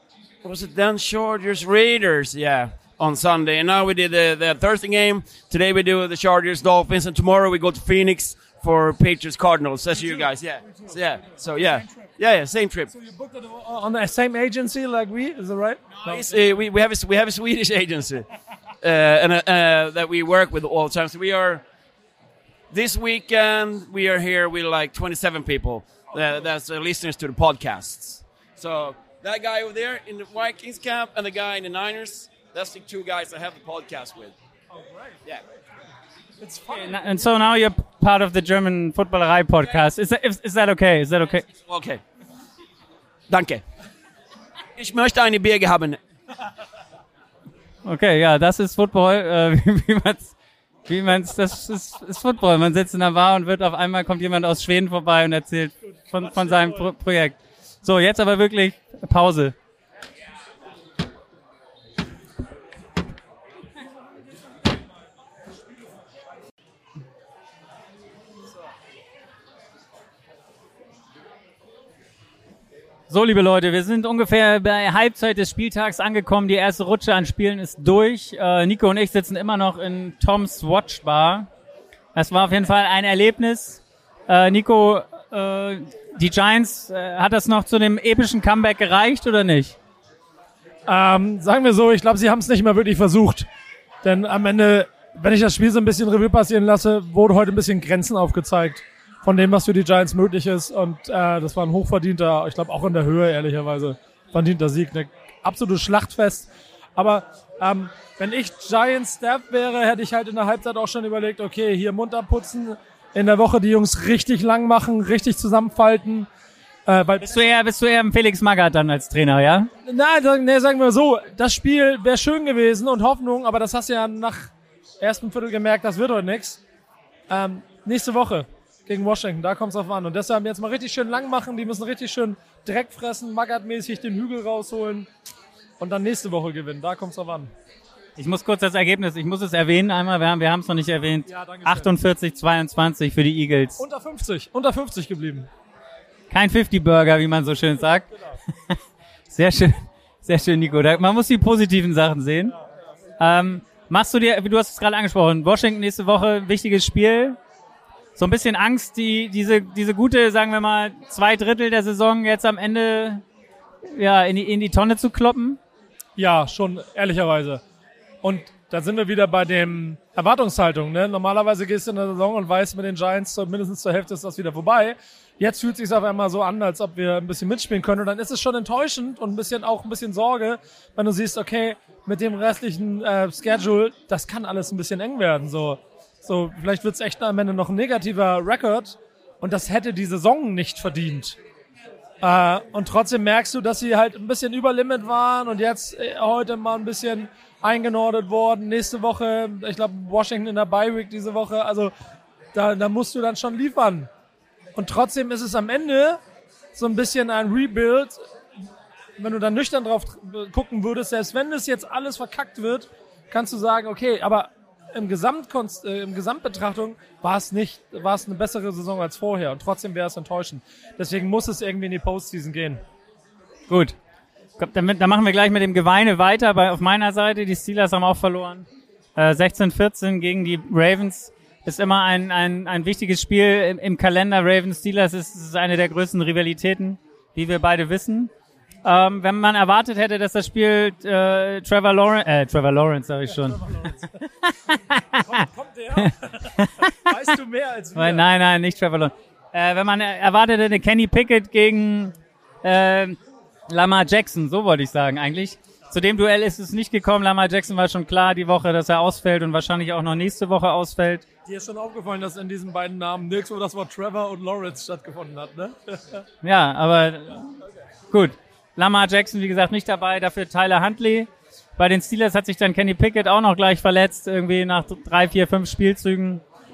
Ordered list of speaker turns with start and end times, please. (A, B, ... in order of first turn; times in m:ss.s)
0:00.4-0:12.9 A
0:10.1-0:11.0 B
0:11.6-0:12.1 B
0:12.9-0:16.3 B
0:16.0-0:18.3 A
0:18.8-0:21.6 A
0:22.7-0:34.4 A
0:34.7-0:35.2 B
0:36.4-0:37.0 B
0:36.7-0:41.5 C
0:41.5-0:42.0 A
0:43.3-0:43.6 A
0:44.8-0:46.0 A
0:47.8-0:50.4 C
0:50.9-0:59.6 C
1:13.1-1:21.5 C
1:22.2-1:29.8 C
1:30.9-1:33.5 B
1:34.0-1:56.3 B
1:56.9-1:57.4 B
1:57.2-1:59.7 C
1:59.9-2:06.6 B
2:07.3-2:15.1 B
2:15.8-2:17.5 B
2:18.2-2:23.8 C
2:21.3-2:21.9 B
2:23.8-2:25.5 B
2:26.3-2:28.1 C
2:29.3-2:32.6 C
2:33.2-2:37.4 C
2:38.2-2:43.2 C
2:43.9-2:45.6 C
2:46.2-2:47.6 B
2:48.2-3:11.4 B
3:12.2-3:21.9 B
3:22.5-3:24.1 B
3:24.8-3:26.2 B
3:26.8-3:28.2 B
3:29.2-3:42.8 B
3:43.7-3:44.0 C
3:44.6-3:58.3 C
3:58.8-4:03.9 C
4:03.3-4:04.1 B
4:04.4-4:05.5 C
4:05.2-4:08.3 B
4:06.0-4:07.1 C
4:08.0-4:21.2 C
4:21.5-4:26.2 B
4:26.4-4:27.5 C
4:28.1-4:36.4 C